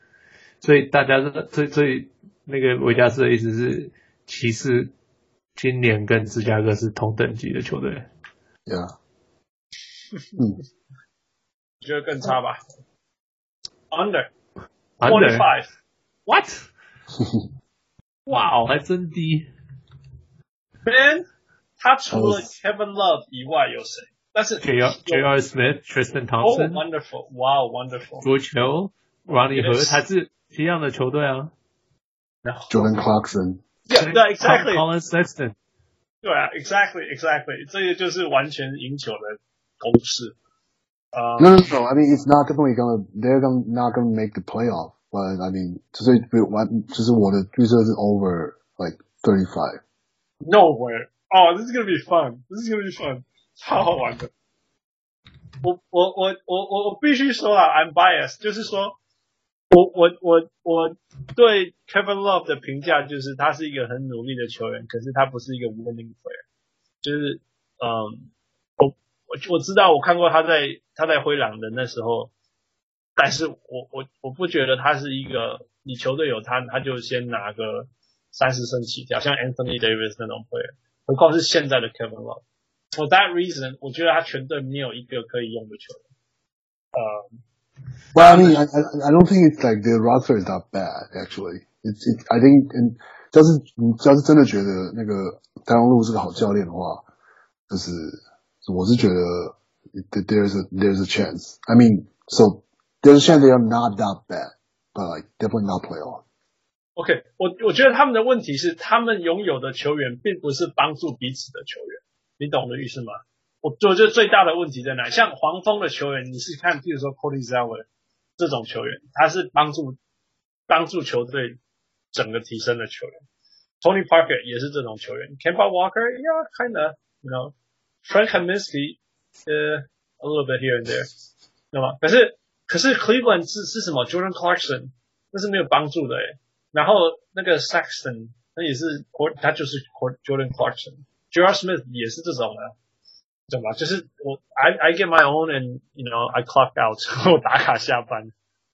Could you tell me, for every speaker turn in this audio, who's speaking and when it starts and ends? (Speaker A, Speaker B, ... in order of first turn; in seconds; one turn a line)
Speaker A: 0.6-4.9
Speaker A: 5.5-8.1
Speaker B: 8.7-8.9
Speaker C: 11.8-12.6
Speaker C: 13.9-14.3
Speaker A: 15.0-15.5
Speaker C: 15.0-15.7
Speaker A: 16.3-16.6
Speaker A: 18.3-19.5
Speaker C: 20.9-21.2
Speaker C: 21.8-25.2
Speaker B: 22.1-22.4
Speaker A: 24.6-26.8
Speaker C: 26.4-28.3
Speaker A: 28.2-31.5
Speaker C: 29.3-30.0
Speaker C: 32.4-33.0
Speaker B: 32.7-33.6
Speaker C: 33.9-34.8
Speaker A: 33.9-35.5
Speaker C: 36.2-40.3
Speaker C: 41.1-41.6
Speaker B: 41.4-49.8
Speaker C: 50.4-54.3
Speaker C: 55.6-59.0
Speaker C: 59.7-66.4
Speaker C: 67.0-72.3
Speaker C: 73.2-82.4
Speaker C: 82.9-86.0
Speaker C: 86.9-87.4
Speaker B: 88.1-97.0
Speaker C: 88.2-88.6
Speaker B: 97.7-106.2
Speaker C: 107.0-117.9
Speaker C: 118.4-120.0
Speaker C: 120.7-121.6
Speaker C: 122.1-123.2
Speaker C: 123.8-131.1
Speaker C: 131.7-142.7
Speaker C: 143.5-148.3